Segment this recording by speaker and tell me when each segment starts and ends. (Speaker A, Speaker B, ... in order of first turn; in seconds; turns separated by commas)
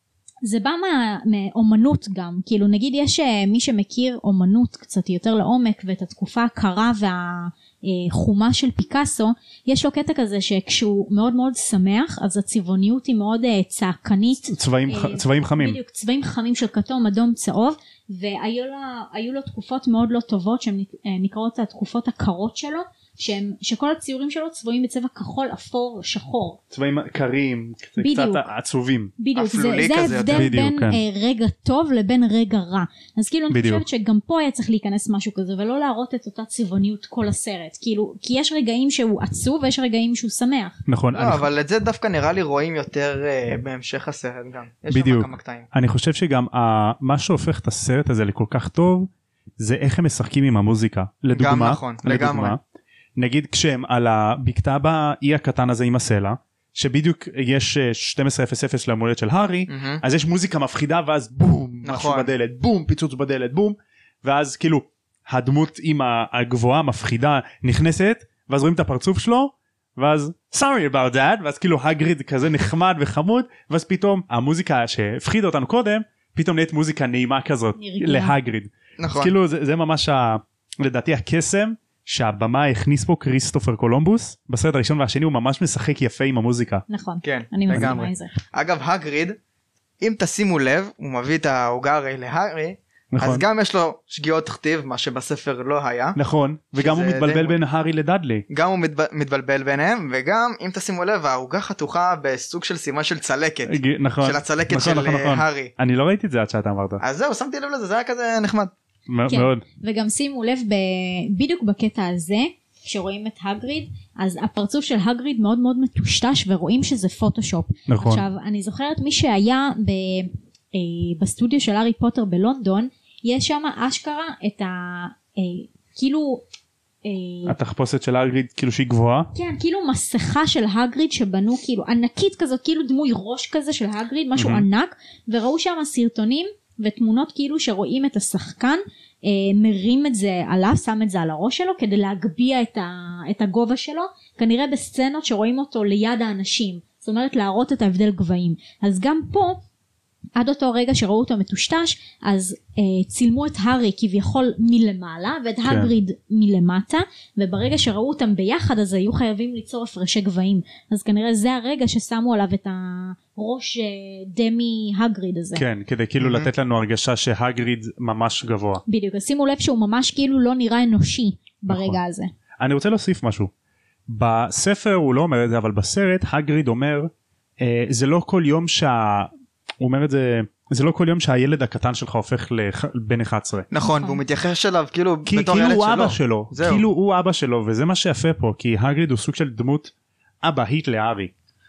Speaker A: 0.4-26.6, Speaker B: 14.5-15.8, Speaker B: 26.7-29.1, Speaker A: 28.0-28.4, Speaker A: 29.2-40.8, Speaker C: 29.3-30.5, Speaker B: 30.3-31.0, Speaker B: 33.5-33.8, Speaker B: 40.9-41.5, Speaker C: 41.1-45.7, Speaker B: 44.9-52.6, Speaker C: 51.3-52.6, Speaker B: 53.2-86.8, Speaker C: 59.7-60.0, Speaker C: 61.8-62.3, Speaker A: 77.8-78.3, Speaker C: 79.0-79.3, Speaker A: 86.9-88.3, Speaker C: 87.2-89.4, Speaker B: 87.7-88.0, Speaker C: 90.0-96.2, Speaker B: 93.1-93.4, Speaker B: 96.2-98.4, Speaker C: 96.8-97.6, Speaker C: 98.5-105.7, Speaker B: 103.7-107.0, Speaker C: 107.0-108.7, Speaker B: 109.1-109.6, Speaker A: 109.3-126.4, Speaker B: 117.9-118.2, Speaker A: 127.0-127.5, Speaker B: 127.5-129.3, Speaker A: 129.3-149.6, Speaker B: 134.3-134.6, Speaker A: 150.3-165.6, Speaker B: 155.6-155.9, Speaker B: 165.6-168.8, Speaker C: 166.2-166.5, Speaker A: 168.8-172.3, Speaker B: 171.7-172.0, Speaker B: 172.6-173.5, Speaker B: 174.1-179.3, Speaker B: 179.8-183.7, Speaker C: 183.7-186.8, Speaker A: 183.8-184.2, Speaker B: 185.2-191.3